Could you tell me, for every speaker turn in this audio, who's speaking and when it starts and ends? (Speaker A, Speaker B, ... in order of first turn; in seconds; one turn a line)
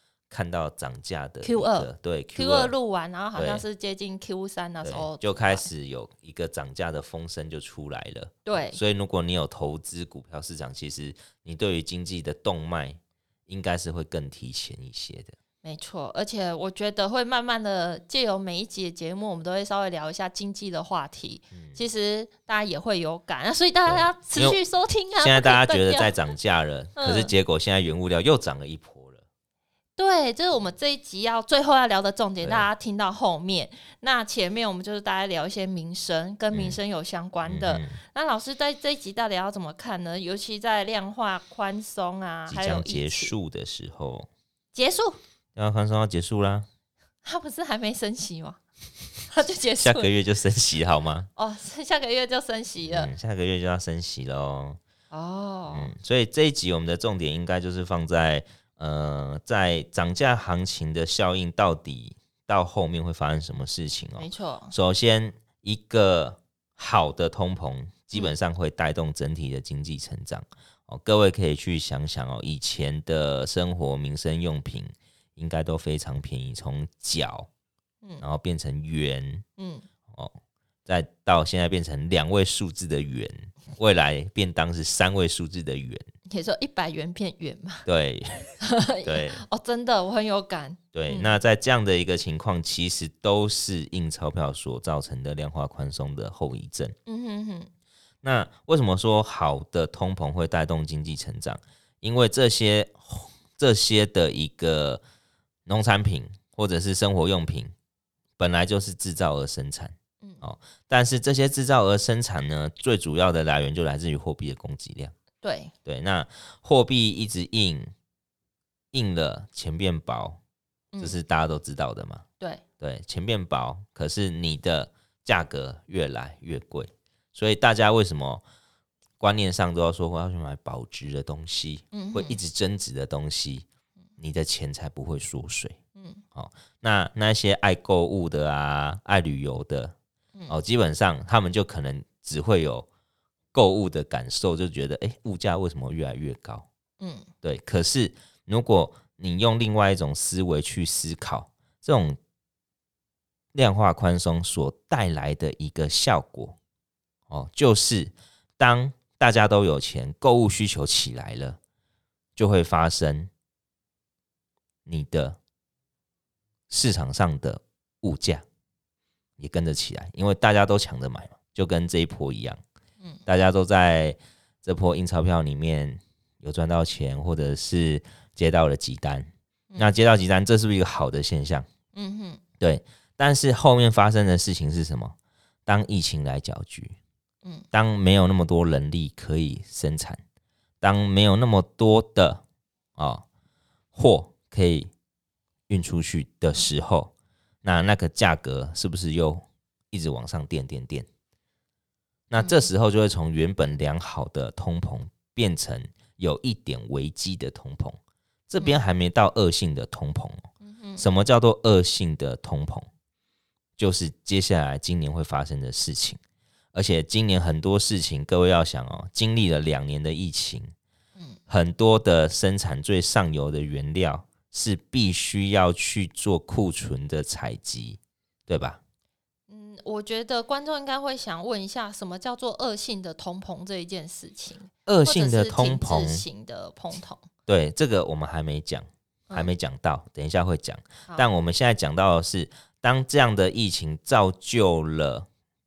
Speaker A: 0.3-2.7
Speaker B: 1.4-5.7
Speaker A: 3.3-3.6
Speaker A: 4.8-15.3
Speaker B: 8.4-8.8
Speaker B: 15.6-26.1
Speaker A: 21.5-21.8
Speaker A: 23.9-24.6
Speaker A: 25.2-29.2
Speaker B: 27.0-27.3
Speaker B: 30.0-43.4
Speaker A: 32.4-32.7
Speaker A: 36.5-36.8
Speaker A: 37.5-38.0
Speaker A: 42.5-44.3
Speaker B: 44.7-45.2
Speaker A: 45.5-46.7
Speaker B: 47.2-48.6
Speaker B: 49.3-50.1
Speaker A: 49.8-51.3
Speaker B: 51.4-53.1
Speaker A: 52.8-54.8
Speaker B: 55.1-55.9
Speaker A: 55.7-77.5
Speaker B: 64.2-64.7
Speaker A: 78.2-79.4
Speaker B: 79.6-79.8
Speaker A: 80.8-86.0
Speaker B: 86.3-87.8
Speaker A: 87.8-89.4
Speaker B: 88.6-91.4
Speaker A: 90.9-96.9
Speaker B: 97.1-97.7
Speaker A: 98.2-105.0
Speaker A: 105.7-107.7
Speaker A: 108.4-115.1
Speaker B: 115.4-115.7
Speaker A: 115.8-117.9
Speaker A: 118.9-120.4
Speaker A: 121.0-122.2
Speaker A: 122.8-128.4
Speaker A: 129.2-133.7
Speaker B: 131.9-132.4
Speaker A: 134.2-135.8
Speaker B: 135.9-136.2
Speaker A: 136.3-139.9
Speaker A: 140.5-142.9
Speaker A: 143.5-146.7
Speaker B: 147.0-147.3
Speaker A: 147.4-152.2
Speaker A: 153.5-156.6
Speaker A: 157.3-161.6
Speaker A: 162.3-163.3
Speaker A: 164.8-165.4
Speaker A: 166.7-168.4
Speaker A: 169.4-172.6
Speaker A: 173.2-181.7
Speaker B: 181.9-182.4
Speaker A: 182.6-185.1
Speaker A: 185.7-187.0
Speaker A: 187.7-190.2
Speaker A: 190.8-192.4
Speaker A: 193.0-193.2
Speaker A: 193.9-194.9
Speaker A: 195.7-197.1
Speaker A: 197.6-201.1
Speaker A: 202.3-210.4
Speaker B: 202.4-202.7
Speaker B: 210.6-211.0
Speaker A: 211.0-212.9
Speaker A: 213.8-216.2
Speaker A: 216.7-220.7
Speaker A: 221.5-228.8
Speaker B: 229.5-237.2
Speaker A: 234.9-236.2
Speaker A: 237.5-245.3